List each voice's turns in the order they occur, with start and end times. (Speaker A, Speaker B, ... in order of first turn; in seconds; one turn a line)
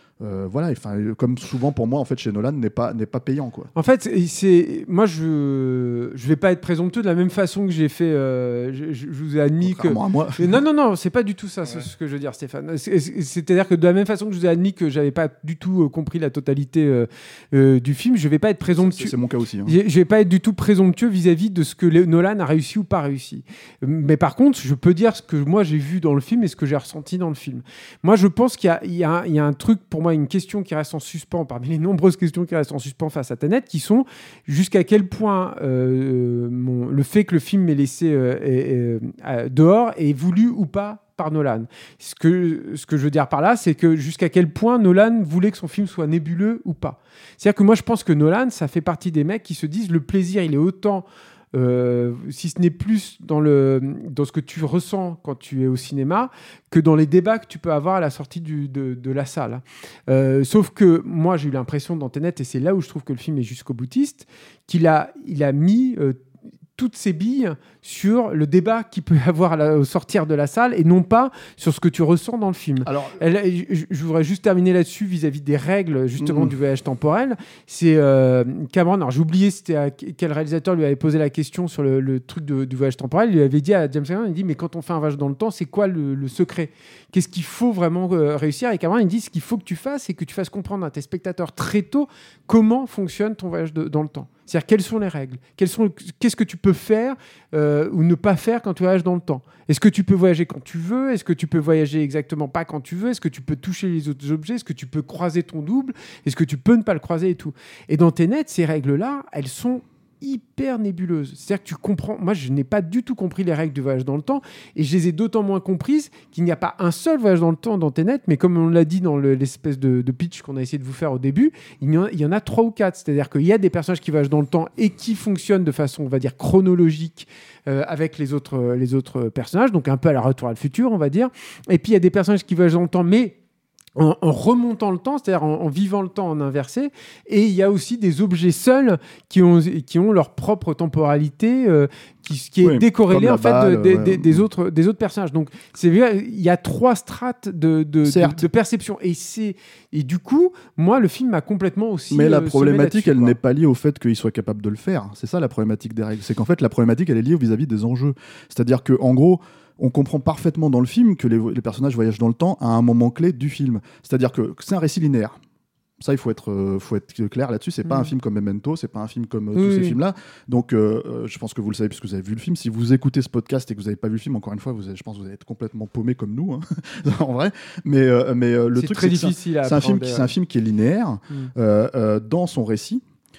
Speaker A: 0.2-3.7
Speaker B: 3.8-19.1
Speaker A: 9.6-10.6
Speaker A: 18.8-19.8
Speaker B: 19.7-66.2
Speaker B: 66.8-133.4
Speaker A: 72.8-73.2
Speaker A: 76.2-76.5
Speaker B: 133.9-153.4
Speaker A: 142.6-144.4
Speaker A: 148.1-148.4
Speaker A: 152.1-165.4
Speaker A: 166.0-183.0
Speaker B: 169.5-170.0
Speaker B: 178.7-180.3